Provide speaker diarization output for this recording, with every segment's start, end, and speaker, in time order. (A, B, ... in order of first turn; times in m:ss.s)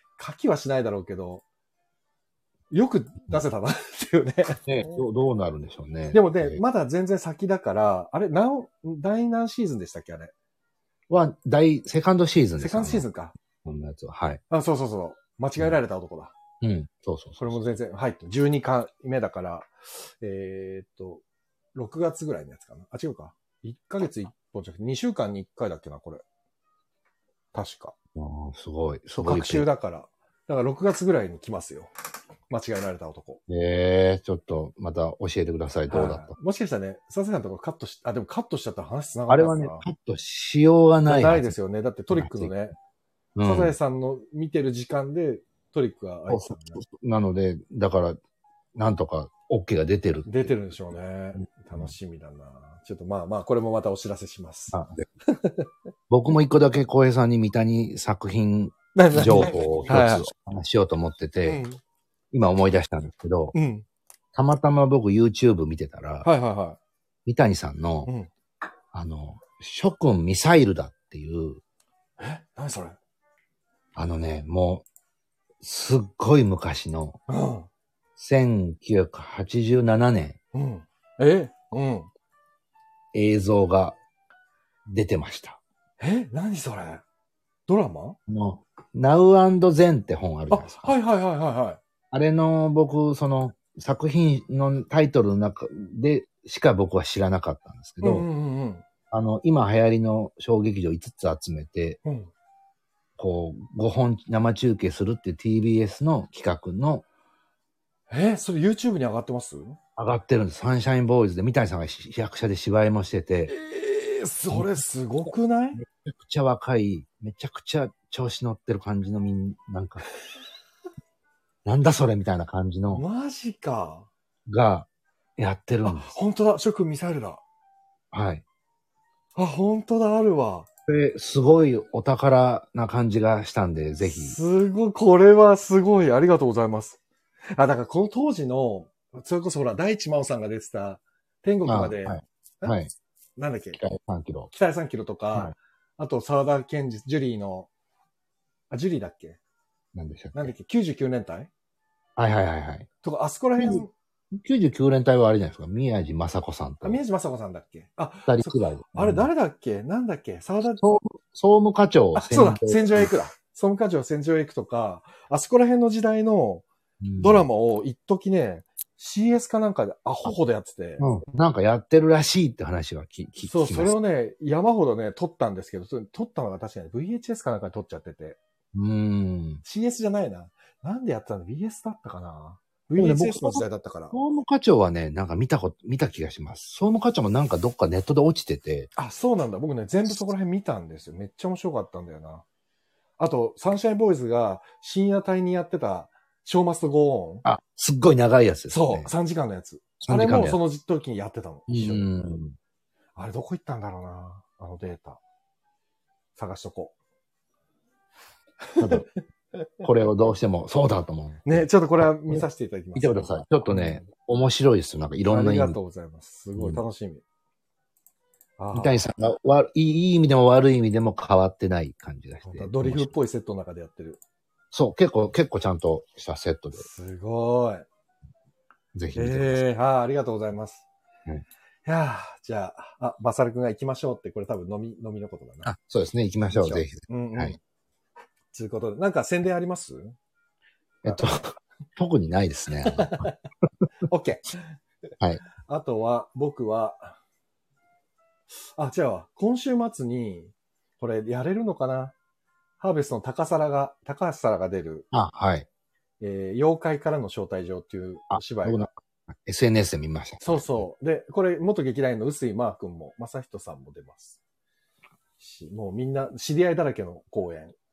0:00.2-0:01.4 A
0:02.7-0:05.0 A
0:04.7-0:06.6 B
0:06.1-0:10.3 A
0:11.1-0:13.0 B
0:12.6-0:13.4 A
0:13.6-0:14.4 B
0:14.5-0:16.3 A
0:16.6-0:17.6 B
0:17.4-0:21.2 A
0:21.7-0:26.2 A
0:27.5-0:27.9 A
0:28.2-0:29.7 B
0:29.2-0:31.9 A
0:32.5-0:33.4 A
0:33.5-0:36.3 B
0:35.9-0:39.8 A
0:39.3-0:41.6 B
0:41.0-0:42.8 A
0:42.1-0:42.5 B
0:43.4-0:43.7 B
0:43.4-0:46.8 A
0:46.3-0:48.2 B
0:48.7-0:50.5 B
0:50.2-0:55.7 A
0:54.7-0:55.1 B
0:56.1-1:01.6 B
0:58.9-1:00.3 A
1:01.4-1:01.8 A
1:02.3-1:03.5 B
1:03.5-1:03.8 A
1:04.3-1:06.2 B
1:06.2-1:06.8 A
1:07.2-1:08.1 B
1:08.0-1:08.3 A
1:08.9-1:11.6 B
1:12.2-1:13.0 A
1:13.9-1:14.8 B
1:15.6-1:17.2 B
1:17.3-1:17.7 A
1:18.2-1:20.4 B
1:20.5-1:22.1 A
1:23.1-1:24.0 B
1:24.9-1:25.6 B
1:26.0-1:27.0 A
1:27.7-1:28.2 A
1:28.3-1:30.9 B
1:30.5-1:31.8 A
1:32.1-1:38.3 B
1:38.0-1:38.8 A
1:39.1-1:42.0 B
1:42.0-1:42.3 A
1:43.2-1:47.0 B
1:48.1-1:49.8 A
1:50.0-1:53.5 B
1:53.5-1:55.8 A
1:54.5-1:54.8 B
1:55.8-2:00.0 B
2:01.6-2:03.0 B
2:02.9-2:04.1 A
2:04.5-2:06.1 B
2:05.8-2:07.4 A
2:08.1-2:08.4 B
2:09.4-2:10.7 A
2:10.9-2:14.4 B
2:14.0-2:17.0 A
2:17.6-2:22.8 A
2:21.6-2:22.9 B
2:23.4-2:23.8 A
2:23.8-2:24.5 B
2:24.5-2:27.7 A
2:28.7-2:29.4 A
2:29.9-2:30.5 B
2:30.3-2:31.5 A
2:32.2-2:32.9 B
2:33.0-2:33.9 A
2:33.6-2:37.0 B
2:36.8-2:41.0 A
2:38.3-2:39.3 B
2:40.8-2:43.1 B
2:42.1-2:46.6 A
2:47.0-2:47.4 B
2:47.2-2:51.0 A
2:51.0-2:53.9 B
2:53.4-2:58.4 A
2:58.7-2:59.6 B
2:59.6-3:04.1 A
3:03.0-3:08.9 B
3:09.0-3:12.4 A
3:13.2-3:17.4 A
3:17.4-3:19.1 B
3:18.7-3:22.1 A
3:20.0-3:20.6 B
3:21.7-3:22.5 B
3:23.2-3:25.2 A
3:26.4-3:26.9 A
3:28.6-3:29.8 A
3:28.8-3:29.1 B
3:29.8-3:35.8 B
3:31.4-3:34.1 A
3:35.2-3:37.2 A
3:36.6-3:36.8 B
3:38.6-3:39.0 A
3:38.7-3:43.1 B
3:42.4-3:44.2 A
3:44.7-3:46.8 B
3:46.7-3:47.8 A
3:48.9-3:49.6 B
3:49.1-3:50.8 A
3:51.8-3:55.7 A
3:55.6-3:57.6 B
3:56.5-3:57.6 A
3:58.5-4:00.2 A
4:01.0-4:03.3 B
4:01.0-4:01.4 A
4:02.8-4:03.4 A
4:04.1-4:04.8 A
4:05.7-4:07.2 A
4:08.8-4:12.2 A
4:12.8-4:15.0 A
4:15.1-4:15.7 B
4:16.2-4:18.9 A
4:18.3-4:20.8 B
4:20.4-4:24.4 A
4:25.4-4:27.7 A